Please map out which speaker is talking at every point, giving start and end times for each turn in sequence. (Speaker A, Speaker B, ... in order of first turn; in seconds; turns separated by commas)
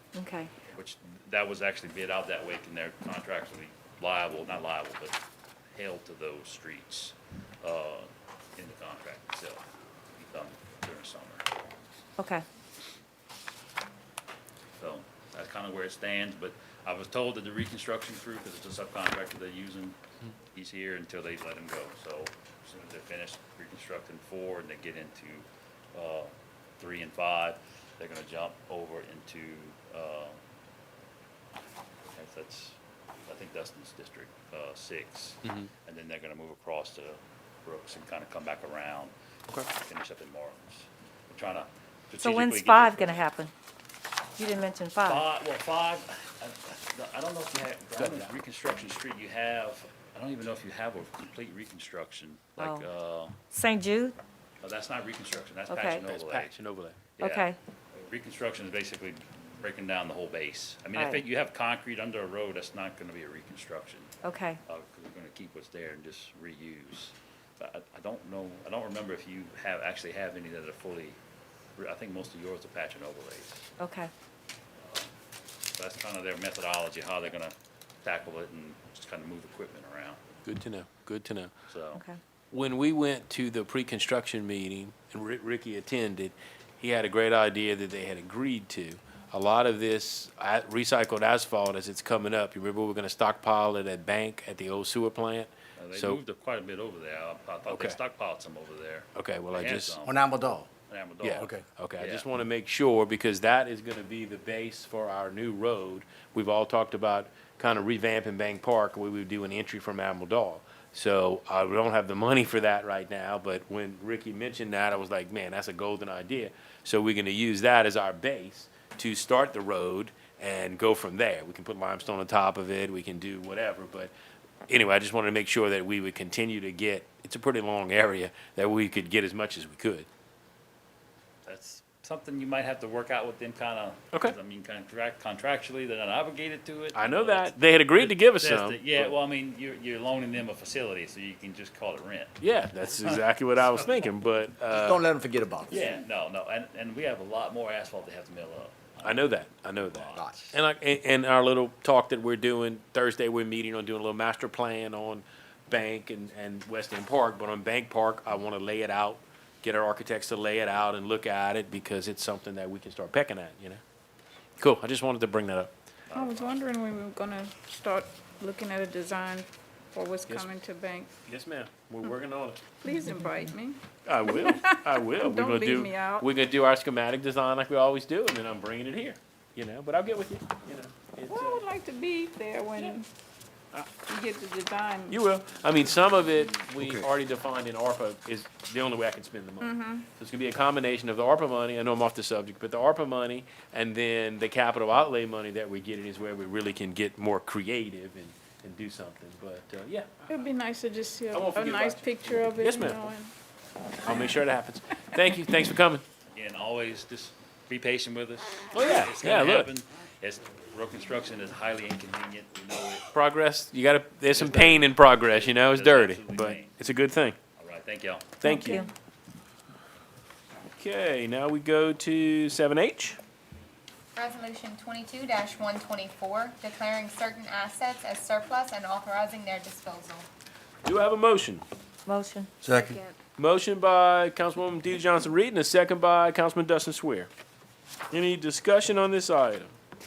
Speaker A: 0.1-0.5, Speaker B: 0.7-5.2, Speaker B: 5.8-9.6, Speaker B: 10.2-11.5, Speaker A: 12.2-12.4, Speaker B: 14.8-20.0, Speaker B: 20.5-30.4, Speaker B: 32.1-39.1, Speaker C: 35.5-35.7, Speaker B: 39.7-43.2, Speaker A: 42.2-43.5, Speaker A: 44.4-45.2, Speaker B: 45.0-53.4, Speaker C: 48.0-48.3, Speaker A: 52.6-52.9, Speaker A: 53.5-54.2, Speaker B: 54.6-56.6, Speaker A: 55.7-56.0, Speaker C: 56.0-57.0, Speaker B: 57.2-64.1, Speaker A: 57.2-57.6, Speaker A: 61.0-61.2, Speaker A: 64.2-64.6, Speaker B: 64.7-71.2, Speaker B: 71.8-73.7, Speaker A: 73.8-74.1, Speaker B: 74.8-75.1, Speaker B: 75.8-80.2, Speaker C: 80.5-81.5, Speaker B: 81.7-82.0, Speaker C: 82.5-96.2, Speaker B: 95.8-100.2, Speaker C: 97.7-98.0, Speaker C: 99.2-100.0, Speaker D: 100.0-100.7, Speaker B: 100.9-102.3, Speaker C: 101.2-124.1, Speaker D: 101.4-101.6, Speaker C: 124.7-130.1, Speaker B: 131.5-142.4, Speaker C: 136.9-139.1, Speaker C: 142.4-145.1, Speaker B: 143.0-144.0, Speaker D: 144.7-146.0, Speaker B: 145.7-150.6, Speaker C: 149.0-163.8, Speaker D: 150.2-150.4, Speaker C: 164.6-165.7, Speaker B: 166.1-166.6, Speaker E: 166.1-171.1, Speaker C: 171.3-172.6, Speaker E: 172.8-176.3, Speaker C: 174.1-181.6, Speaker E: 181.3-183.1, Speaker E: 184.1-185.2, Speaker C: 185.1-200.4, Speaker D: 186.8-187.1, Speaker E: 189.6-190.1, Speaker E: 200.3-203.3, Speaker C: 201.3-203.0, Speaker C: 204.0-206.0, Speaker B: 206.3-213.1, Speaker C: 208.7-209.7, Speaker C: 213.1-217.4, Speaker B: 214.3-216.8, Speaker B: 217.6-218.3, Speaker C: 218.4-218.8, Speaker A: 218.4-218.9, Speaker C: 220.8-223.2, Speaker F: 224.1-230.3, Speaker C: 230.8-231.6, Speaker A: 232.1-233.1, Speaker D: 232.6-233.0, Speaker C: 233.4-237.3, Speaker C: 238.1-239.7